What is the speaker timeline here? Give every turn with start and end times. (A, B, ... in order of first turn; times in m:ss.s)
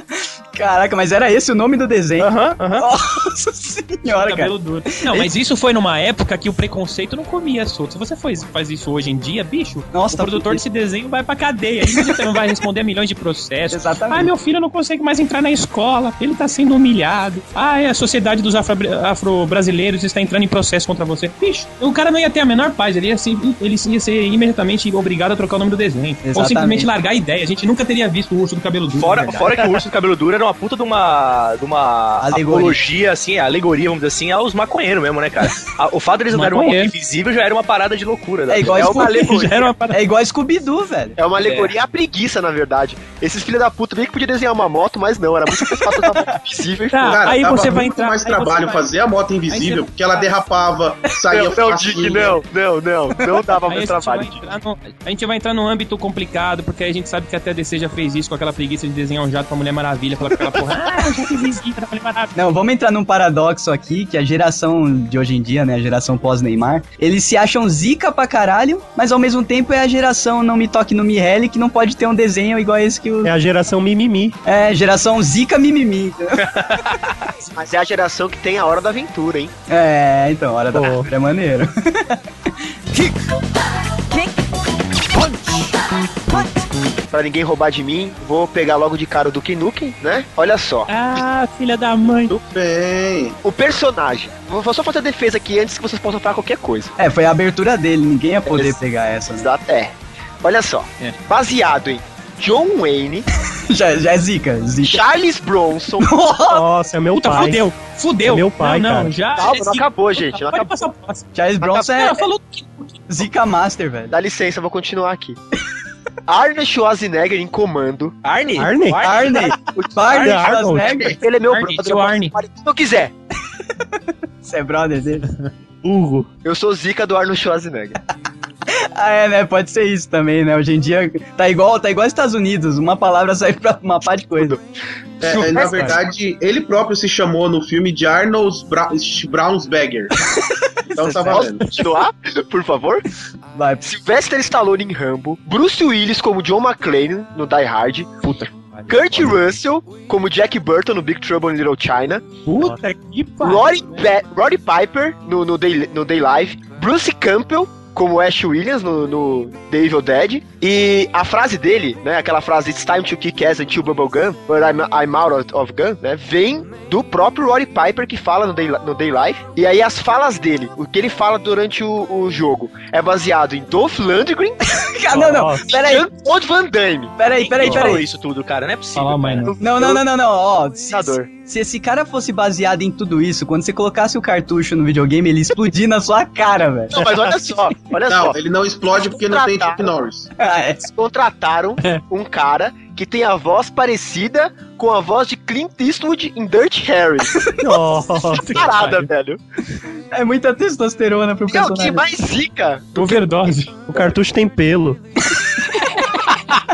0:00.1-0:05.3 A
0:02.3-0:02.7 B
0:04.1-0:29.8 C
0:09.9-0:10.6 A
0:11.9-0:12.2 A
0:13.7-0:14.3 A
0:26.2-0:26.9 A
0:29.0-0:38.9 B
0:32.2-0:32.8 A
0:36.3-0:36.9 C
0:38.5-0:41.2 A
0:38.7-0:39.7 D
0:38.9-0:40.0 C
0:41.2-0:47.2 D
0:41.4-0:41.8 B
0:45.7-0:46.3 A
0:46.9-0:48.9 C
0:47.1-0:52.4 E
0:49.5-0:49.9 C
0:51.3-0:54.4 D
0:53.7-1:02.3 C
1:02.4-1:13.3 A
1:13.2-1:14.4 F
1:14.5-1:16.6 A
1:16.5-1:17.2 B
1:17.4-1:19.5 D
1:19.7-1:22.2 A
1:20.7-1:21.1 F
1:27.1-1:30.9 D
1:30.9-1:32.4 C
1:32.3-1:33.4 E
1:33.4-1:36.9 D
1:37.0-1:39.5 A
1:38.5-1:38.8 D
1:39.3-1:43.3 D
1:43.7-1:45.0 A
1:44.8-1:46.1 D
1:46.0-1:46.6 A
1:46.5-1:47.7 F
1:47.1-1:53.1 C
1:48.2-1:49.1 F
1:49.4-1:50.8 D
1:51.4-1:52.2 A
1:53.1-1:54.2 A
1:54.1-1:55.4 D
1:56.3-1:58.2 D
1:58.2-1:59.6 B
1:58.6-1:59.0 F
1:59.0-2:01.2 A
1:59.7-2:00.2 D
2:00.1-2:00.5 B
2:00.2-2:01.0 F
2:00.8-2:03.1 D
2:01.4-2:02.4 C
2:03.8-2:05.3 A
2:05.8-2:06.3 F
2:06.4-2:08.0 D
2:08.7-2:14.6 A
2:14.4-2:14.6 D
2:15.2-2:20.1 E
2:15.3-2:16.0 C
2:15.6-2:15.9 A
2:20.9-2:21.5 A
2:20.9-2:21.7 E
2:21.3-2:23.0 D
2:23.6-2:23.8 A
2:23.8-2:28.2 D
2:28.3-2:29.3 C
2:28.9-2:32.4 D
2:32.5-2:34.0 C
2:33.4-2:54.6 D
2:54.7-2:56.1 A
2:55.1-2:55.6 F
2:55.7-2:57.2 D
2:57.2-2:58.0 A
2:57.4-2:59.6 B
2:57.7-2:58.0 C
2:59.0-2:59.5 C
2:59.6-3:00.0 D
2:59.6-3:07.0 A
3:00.9-3:01.3 D
3:06.9-3:08.4 D
3:08.1-3:10.3 E
3:08.9-3:09.9 D
3:10.4-3:10.9 A
3:11.0-3:17.5 D
3:17.6-3:18.8 F
3:18.2-3:19.1 C
3:18.4-3:19.4 D
3:20.1-3:22.0 A
3:21.5-3:23.5 D
3:23.0-3:24.0 C
3:23.9-3:25.0 F